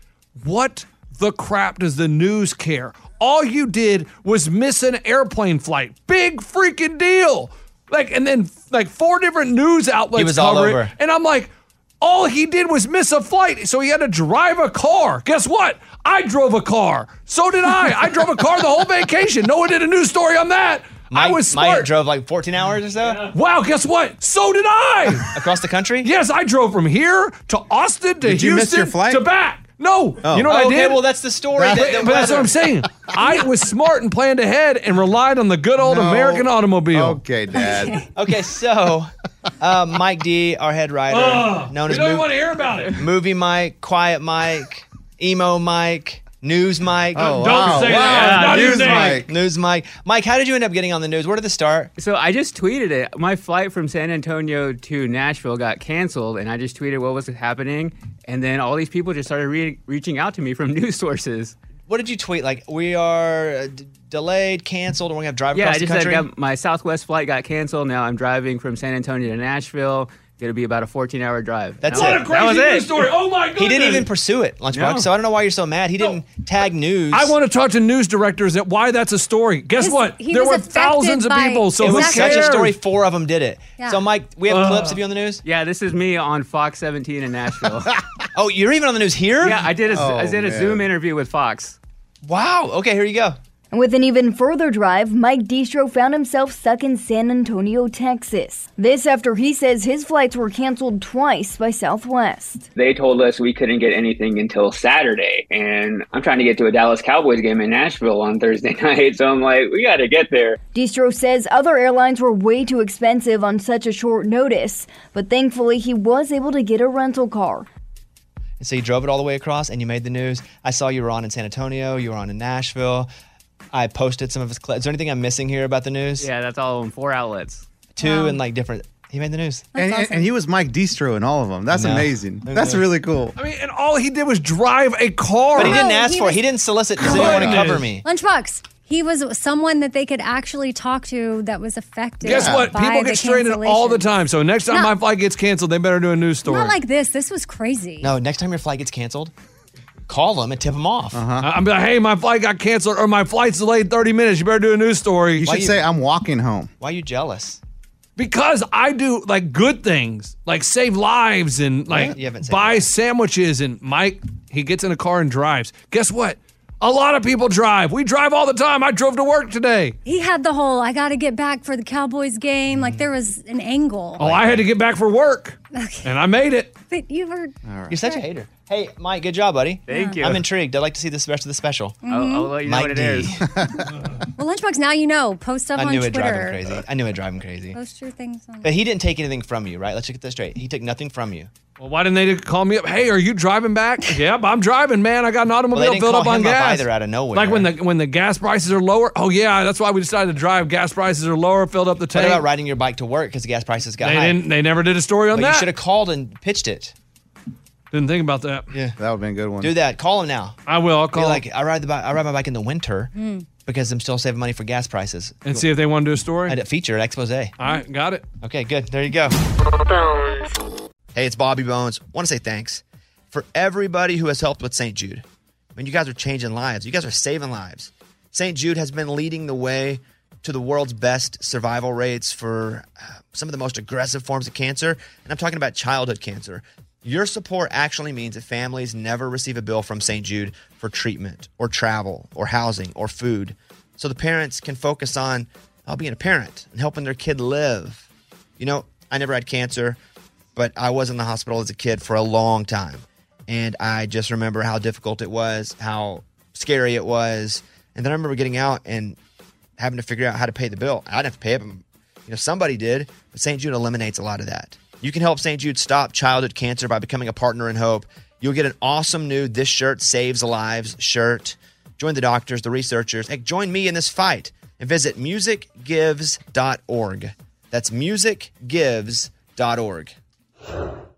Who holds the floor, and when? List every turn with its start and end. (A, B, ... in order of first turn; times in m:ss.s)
0:00.4-0:21.9 A
0:10.1-0:10.9 B
0:21.1-0:23.3 B
0:23.3-0:25.4 A
0:25.3-0:26.1 B
0:26.0-0:31.0 A
0:28.2-0:29.2 C
0:30.2-0:32.5 B
0:31.6-0:32.0 C
0:31.7-0:37.2 A
0:33.0-0:33.3 C
0:35.8-0:38.1 C
0:37.6-0:38.1 D
0:38.2-0:42.3 B
0:41.1-0:43.0 A
0:42.9-0:51.9 B
0:47.1-0:49.3 C
0:47.4-0:49.2 A
0:48.1-0:49.1 E
0:52.0-1:01.6 E
1:01.9-1:06.3 B
1:05.5-1:13.1 E
1:11.8-1:12.4 B
1:11.9-1:14.1 A
1:13.6-1:17.4 B
1:14.7-1:15.1 E
1:17.1-1:22.8 A
1:19.8-1:22.6 D
1:21.8-1:25.4 B
1:24.5-1:25.0 A
1:25.4-1:27.9 E
1:28.3-1:29.6 B
1:29.4-1:31.8 E
1:29.9-1:30.9 C
1:32.2-1:33.4 B
1:33.7-1:42.7 F
1:42.8-1:50.6 G
1:50.7-1:57.7 F
1:58.6-2:03.1 B
2:03.7-2:06.3 B
2:06.2-2:07.6 E
2:07.9-2:09.7 B
2:08.0-2:08.4 D
2:09.8-2:10.3 D
2:09.8-2:13.4 C
2:11.7-2:12.8 B
2:13.4-2:15.8 A
2:15.6-2:18.1 B
2:15.6-2:16.4 D
2:17.0-2:17.9 A
2:17.0-2:17.8 C
2:18.0-2:24.1 D
2:22.2-2:26.8 A
2:22.2-2:22.7 C
2:26.4-2:28.1 D
2:28.0-2:29.3 B
2:30.1-2:31.2 B
2:31.1-2:31.5 C
2:31.4-2:35.5 A
2:35.4-2:36.7 C
2:35.4-2:35.8 B
2:36.8-2:37.6 B
2:38.2-2:50.0 A
2:42.0-2:42.9 B
2:50.0-2:54.2 D
2:54.2-2:56.7 A
2:54.2-2:54.6 B
2:55.7-2:56.1 D
2:56.9-2:58.2 D
2:57.6-2:58.0 C
2:57.9-3:02.0 B
2:59.9-3:00.5 E
2:59.9-3:00.2 D
3:02.0-3:02.5 D
3:02.1-3:03.4 E
3:02.6-3:03.4 B
3:03.5-3:03.9 C
3:04.4-3:06.6 D
3:05.8-3:07.8 B
3:07.7-3:08.7 D
3:08.6-3:11.5 B
3:11.8-3:22.4 A
3:15.7-3:17.7 B
3:22.1-3:24.4 B
3:24.0-3:25.7 A
3:25.3-3:26.9 B
3:27.9-3:28.7 A
3:29.0-3:29.7 C
3:29.6-3:30.6 B
3:30.6-3:31.4 A
3:31.1-3:33.1 B
3:33.1-3:33.4 D
3:33.6-3:35.4 B
3:35.4-3:36.6 A
3:36.5-3:37.5 B
3:37.6-3:38.2 A
3:38.4-3:39.4 B
3:41.1-3:45.2 B
3:45.8-4:08.1 B
4:08.6-4:10.0 B
4:10.6-4:19.2 B
4:19.8-4:40.1 B